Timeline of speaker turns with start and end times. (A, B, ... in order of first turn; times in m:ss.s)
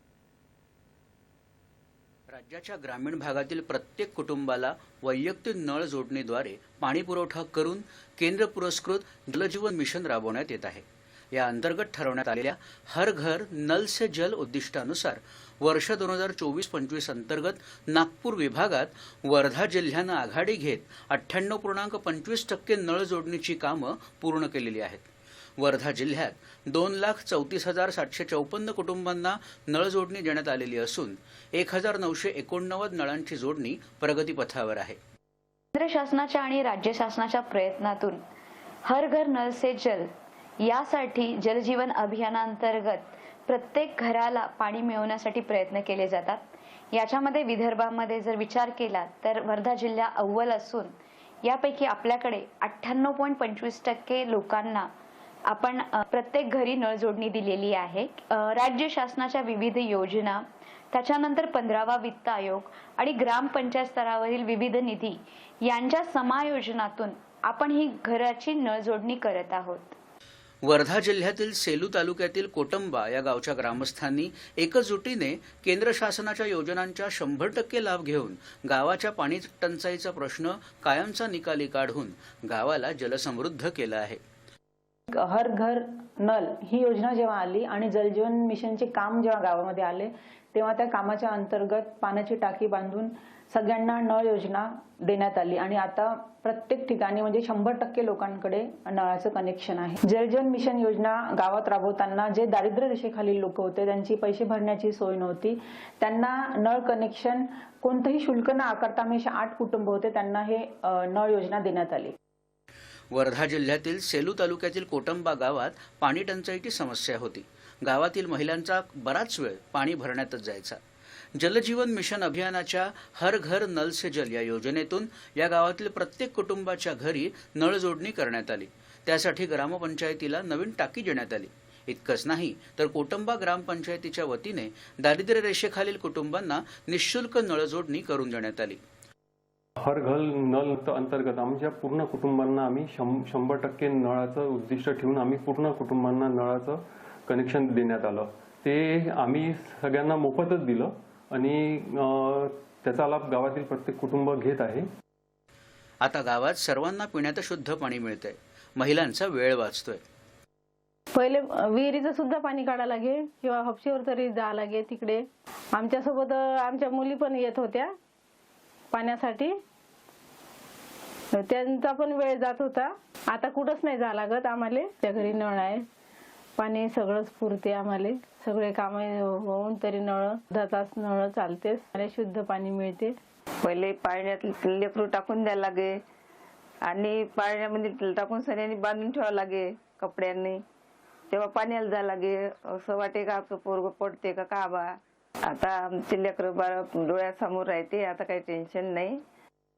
0:02.3-0:25.1 A
0:25.6-0:35.0 A
0:35.8-0:38.2 B
0:38.9-0:40.1 B
0:40.6-0:50.9 B
0:51.4-0:54.9 B
0:55.5-1:10.0 B
1:10.6-1:24.2 A
1:25.1-1:52.1 C
1:53.1-2:00.8 A
2:01.4-2:18.8 A
2:19.8-2:34.9 D
2:36.0-2:40.0 A
2:41.2-2:47.9 E
2:48.9-2:49.5 E
2:51.3-2:55.8 E
2:56.6-3:03.2 E
3:03.6-3:06.0 F
3:06.8-3:10.6 F
3:11.3-3:19.2 F